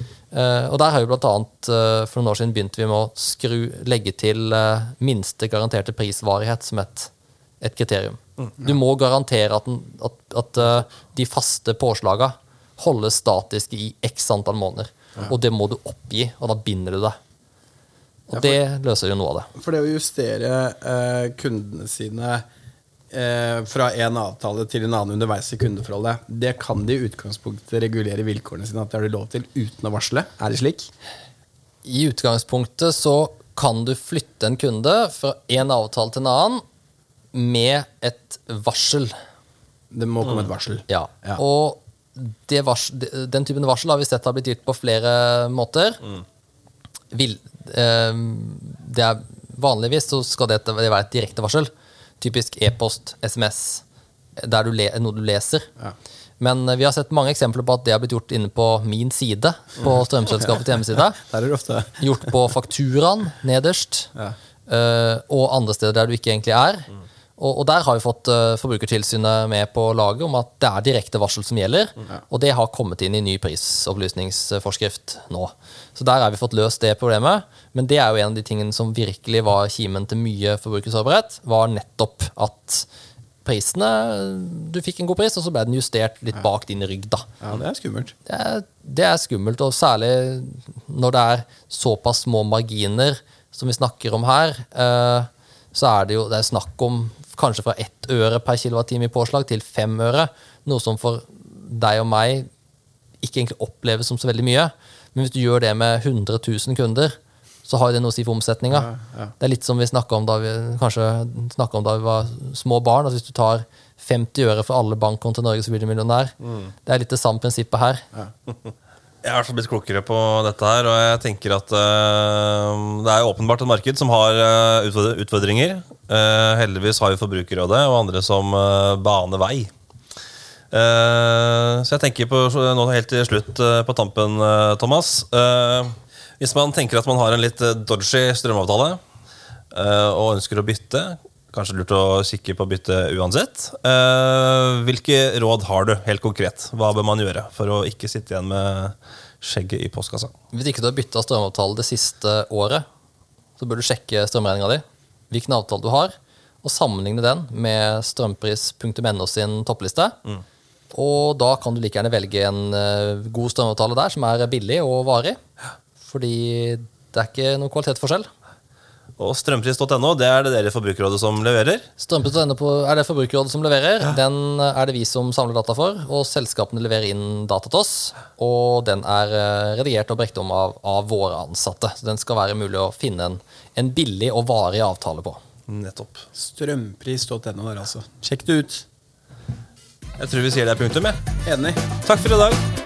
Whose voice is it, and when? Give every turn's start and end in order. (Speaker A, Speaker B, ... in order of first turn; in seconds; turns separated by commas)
Speaker A: 0.3-17.2, Speaker A: 18.3-19.5, Speaker B: 19.6-22.4, Speaker B: 23.1-30.9, Speaker A: 31.8-36.6, Speaker A: 37.3-39.2, Speaker B: 39.9-41.4, Speaker A: 40.9-46.0, Speaker A: 47.1-53.8, Speaker A: 54.4-55.7, Speaker A: 56.4-61.2, Speaker B: 61.2-62.0, Speaker A: 62.0-64.1, Speaker A: 64.7-82.9, Speaker A: 83.4-87.3, Speaker B: 87.4-88.1, Speaker A: 88.3-102.5, Speaker A: 103.2-116.3, Speaker B: 108.7-109.3, Speaker A: 116.9-118.1, Speaker C: 119.2-129.7, Speaker C: 130.7-139.0, Speaker C: 139.7-150.3, Speaker A: 150.5-152.9, Speaker A: 153.6-160.2, Speaker A: 160.9-165.4, Speaker A: 166.0-168.3, Speaker C: 169.2-171.9, Speaker A: 172.0-185.4, Speaker C: 185.7-186.3, Speaker B: 186.3-188.9, Speaker C: 190.2-191.2, Speaker B: 191.4-191.9, Speaker C: 192.0-192.6